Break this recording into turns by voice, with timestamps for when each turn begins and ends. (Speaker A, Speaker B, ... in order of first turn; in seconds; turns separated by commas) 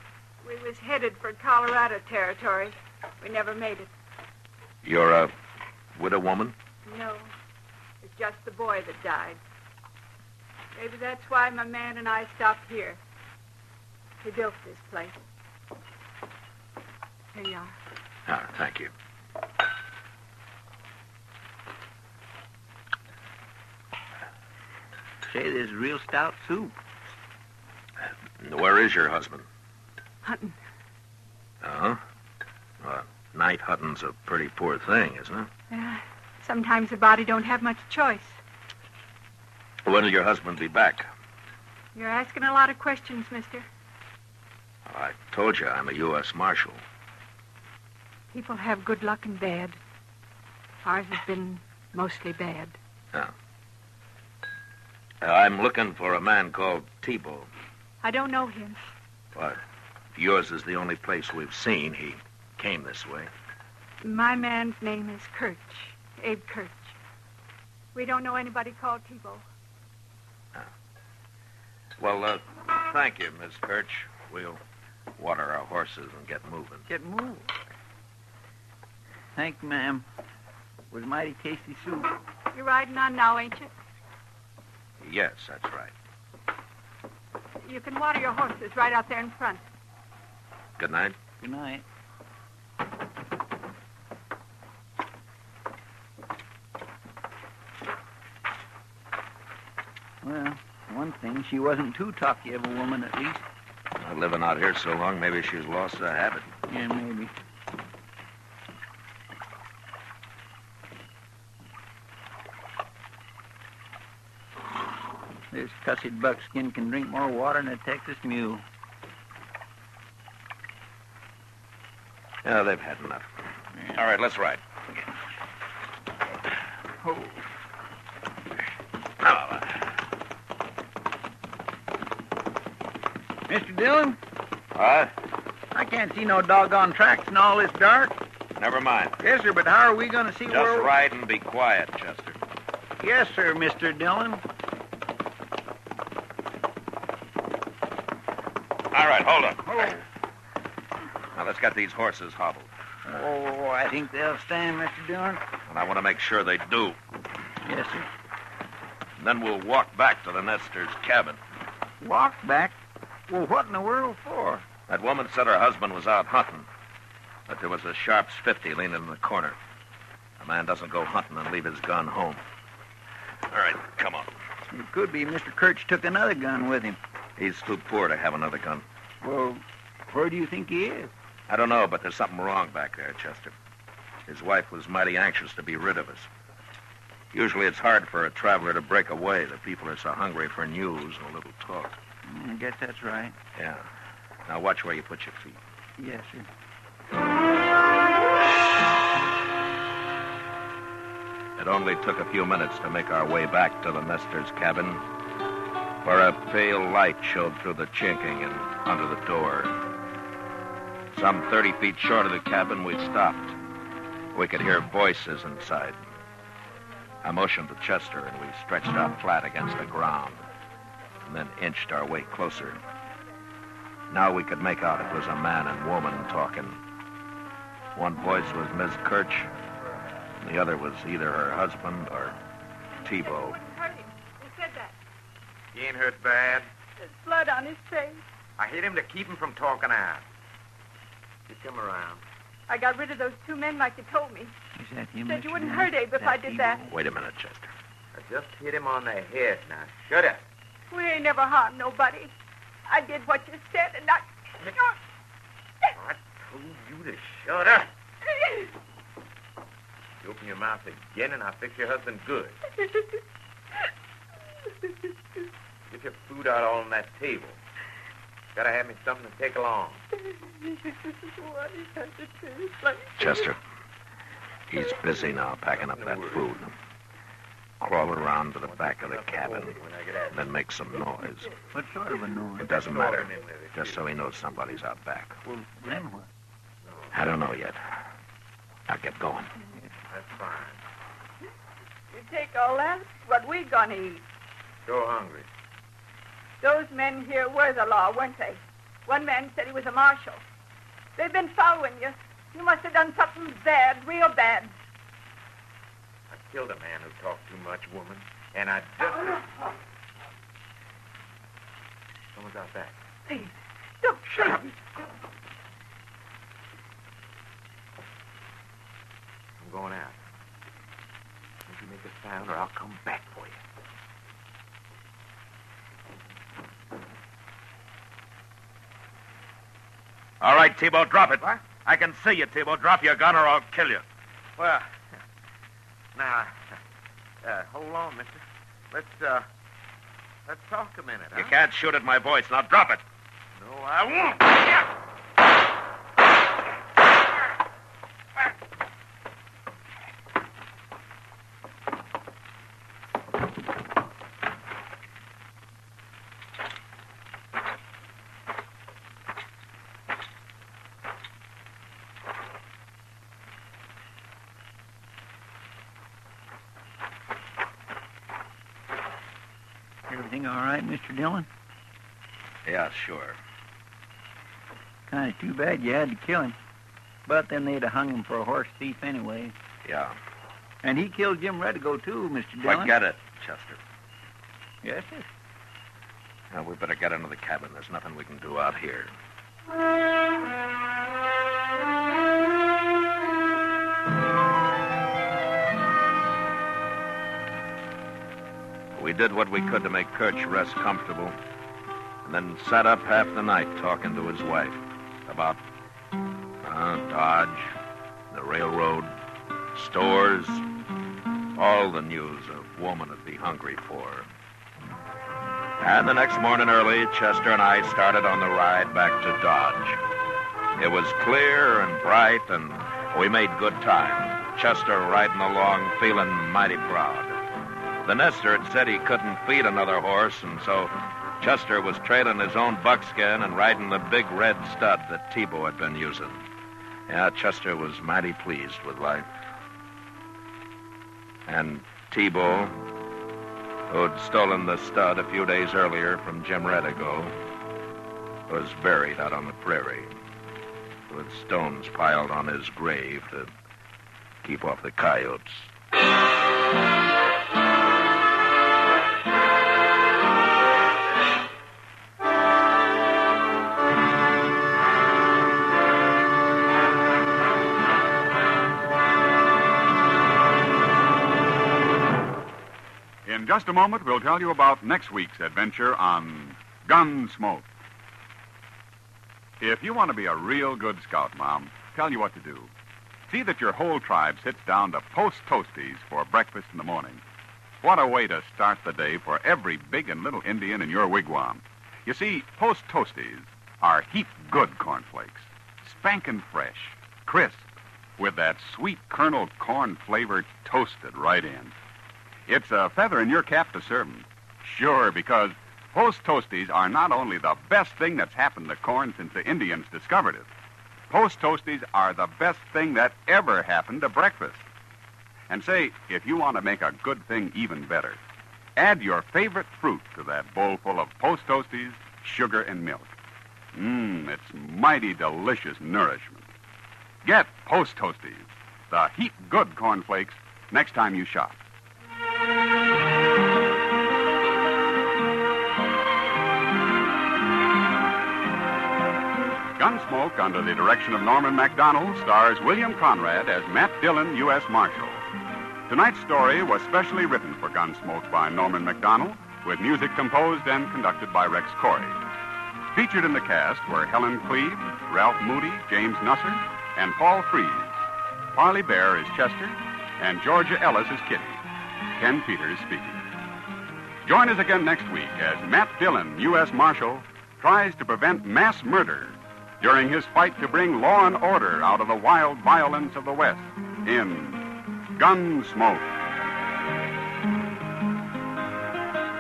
Speaker A: 0.4-3.9, Speaker B: 4.8-5.3, Speaker B: 6.0-6.5, Speaker A: 6.9-7.3, Speaker A: 8.0-9.4, Speaker A: 10.8-13.0, Speaker A: 14.2-15.2, Speaker A: 17.3-17.8, Speaker B: 18.3-18.9, Speaker C: 25.3-26.8, Speaker B: 28.4-29.4, Speaker A: 30.2-30.6, Speaker B: 31.6-32.0, Speaker B: 32.8-35.5, Speaker A: 35.7-38.4, Speaker B: 39.9-41.1, Speaker A: 42.0-43.6, Speaker B: 44.9-46.8, Speaker A: 48.3-49.8, Speaker A: 50.9-52.8, Speaker B: 55.2-57.5, Speaker A: 58.0-58.8, Speaker B: 59.3-59.6, Speaker B: 60.1-63.3, Speaker A: 64.0-67.0, Speaker A: 67.9-69.4, Speaker B: 72.0-74.6, Speaker B: 75.2-76.9, Speaker C: 76.9-77.6, Speaker C: 79.4-80.1, Speaker C: 80.9-82.1, Speaker A: 82.5-83.7, Speaker B: 85.0-85.9, Speaker A: 87.6-89.6, Speaker B: 90.8-91.2, Speaker C: 91.4-91.8, Speaker C: 100.2-103.5, Speaker B: 104.0-106.5, Speaker C: 106.7-107.3, Speaker C: 115.5-118.7, Speaker B: 122.4-123.3, Speaker B: 123.9-124.6, Speaker C: 127.0-127.4, Speaker B: 129.2-129.8, Speaker C: 133.5-134.2, Speaker B: 134.8-135.1, Speaker C: 135.8-138.2, Speaker B: 138.6-139.2, Speaker C: 139.2-140.9, Speaker B: 140.5-142.4, Speaker C: 143.0-144.4, Speaker B: 148.9-150.0, Speaker B: 151.3-152.7, Speaker C: 153.1-155.4, Speaker B: 155.7-157.0, Speaker C: 157.7-158.1, Speaker B: 159.2-161.4, Speaker C: 162.0-162.8, Speaker C: 163.3-164.7, Speaker B: 164.9-166.7, Speaker B: 167.5-169.6, Speaker B: 170.4-172.4, Speaker B: 173.5-174.3, Speaker C: 174.7-177.0, Speaker B: 177.4-178.9, Speaker C: 179.2-181.1, Speaker B: 181.5-183.5, Speaker B: 184.3-186.3, Speaker B: 187.3-192.0, Speaker C: 192.2-193.4, Speaker B: 193.6-193.9, Speaker B: 194.5-195.6, Speaker C: 196.0-196.5, Speaker B: 201.6-205.0, Speaker B: 206.0-209.8, Speaker B: 211.1-213.6, Speaker B: 214.3-216.1, Speaker B: 217.2-220.4, Speaker B: 221.2-222.8, Speaker B: 224.1-226.8, Speaker B: 227.9-229.5, Speaker B: 230.4-232.4, Speaker B: 233.0-233.6, Speaker A: 233.1-235.0, Speaker D: 235.7-236.7, Speaker A: 237.0-238.2, Speaker D: 238.6-240.3, Speaker D: 241.5-242.2, Speaker A: 242.7-244.5, Speaker C: 244.8-246.9, Speaker A: 245.2-246.9, Speaker B: 246.9-247.7, Speaker D: 248.1-250.4, Speaker A: 250.9-252.3, Speaker A: 252.9-255.0, Speaker D: 256.0-257.9, Speaker D: 260.2-262.6, Speaker D: 265.9-267.6, Speaker D: 268.6-270.1, Speaker A: 270.6-273.2, Speaker B: 273.2-273.6, Speaker B: 274.7-276.8, Speaker D: 275.8-276.6, Speaker B: 277.8-281.5, Speaker D: 278.6-280.5, Speaker C: 281.7-282.7, Speaker B: 282.6-285.4, Speaker D: 282.6-284.1, Speaker C: 285.5-286.3, Speaker D: 286.9-287.1, Speaker B: 287.1-287.8, Speaker B: 288.9-289.5, Speaker D: 290.1-290.8, Speaker A: 292.1-294.2, Speaker D: 294.9-295.5, Speaker A: 296.6-300.4, Speaker A: 301.2-304.7, Speaker D: 306.3-309.5, Speaker D: 312.3-313.0, Speaker A: 313.3-314.8, Speaker D: 319.6-320.2, Speaker D: 321.7-323.6, Speaker B: 330.4-334.0, Speaker D: 334.6-335.0, Speaker D: 336.1-336.8, Speaker D: 337.4-339.5, Speaker D: 340.4-341.6, Speaker B: 341.3-343.0, Speaker D: 343.6-344.8, Speaker C: 370.1-371.5, Speaker B: 372.7-373.4, Speaker C: 375.1-376.6, Speaker C: 377.3-379.6, Speaker B: 379.9-380.2, Speaker C: 380.8-382.9, Speaker B: 382.7-383.8, Speaker C: 384.8-385.3, Speaker B: 386.5-389.1, Speaker B: 398.9-401.4, Speaker B: 402.2-405.6, Speaker B: 406.6-407.8, Speaker B: 408.3-409.1, Speaker B: 409.7-410.6, Speaker B: 411.6-414.3, Speaker B: 415.8-420.0, Speaker B: 420.8-427.4, Speaker B: 428.0-436.4, Speaker B: 437.1-439.3, Speaker B: 441.5-442.8, Speaker B: 443.9-447.3, Speaker B: 448.5-450.1, Speaker B: 451.1-453.5, Speaker B: 454.4-455.7, Speaker E: 473.3-477.7, Speaker E: 479.6-482.7, Speaker E: 483.3-487.2, Speaker E: 487.8-497.6, Speaker E: 498.2-501.7, Speaker E: 502.5-510.5, Speaker E: 511.1-514.7, Speaker E: 515.5-518.2, Speaker E: 518.8-523.1, Speaker E: 523.7-526.5, Speaker E: 527.2-531.6, Speaker E: 539.8-545.2, Speaker E: 545.9-552.2, Speaker E: 552.9-558.0, Speaker E: 558.5-561.6, Speaker E: 562.2-563.2, Speaker E: 564.2-574.6, Speaker E: 575.1-576.1